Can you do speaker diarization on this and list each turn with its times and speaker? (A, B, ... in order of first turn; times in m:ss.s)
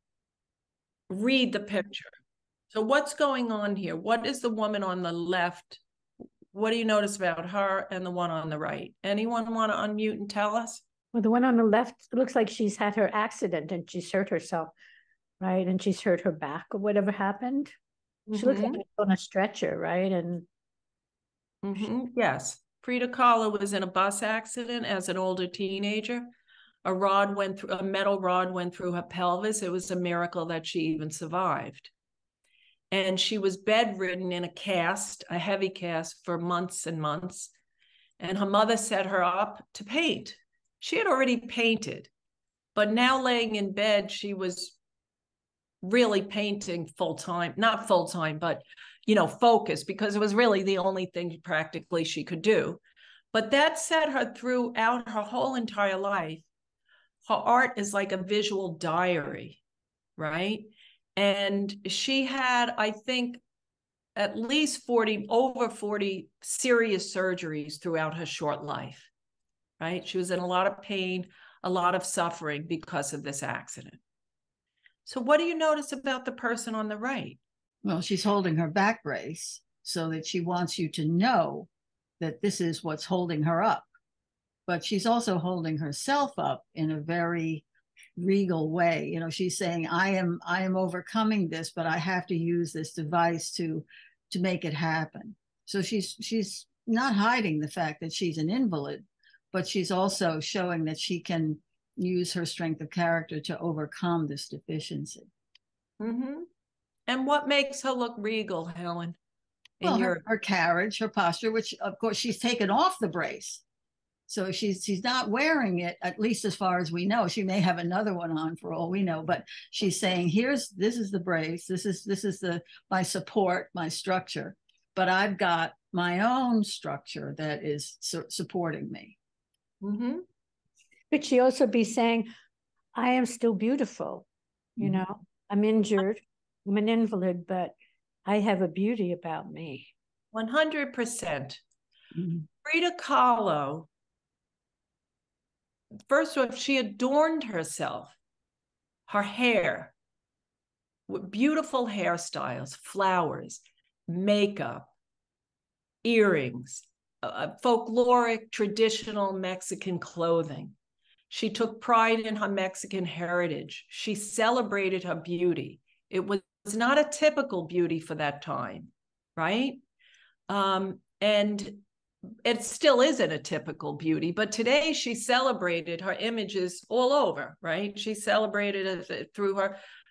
0:01.1-0:02.1 A
0:02.7-0:05.8 A
0:06.5-0:10.8 A
0:11.1-0:14.7 B
0:15.4-0:17.7 B
0:18.3-0:18.8 A
0:18.4-0:20.4 B
0:21.6-0:26.3 A
0:26.8-0:31.9 A
0:32.9-0:37.5 A
0:38.2-0:42.1 A
0:42.7-0:44.8 A
0:45.8-0:52.8 A
0:53.3-0:56.4 A
0:57.2-0:59.6 A
1:00.2-1:03.4 A
1:04.2-1:09.1 A
1:09.8-1:14.0 A
1:15.0-1:17.4 A
1:17.8-1:21.7 C
1:22.2-1:23.9 C
1:24.7-1:27.6 C
1:28.2-1:45.3 C
1:46.0-1:46.5 A
1:47.1-1:49.2 A
1:49.8-1:50.2 A
1:49.8-1:53.6 C
1:54.3-2:09.2 C
2:09.8-2:10.2 A
2:11.1-2:12.3 B
2:12.9-2:14.2 B
2:14.8-2:17.7 B
2:18.2-2:19.9 B
2:20.3-2:21.6 A
2:22.6-2:23.9 A
2:26.1-2:28.2 A
2:29.1-2:29.9 A
2:31.1-2:34.9 A
2:36.0-2:40.7 A
2:41.3-2:49.8 A
2:50.5-2:51.8 A
2:52.4-2:59.8 A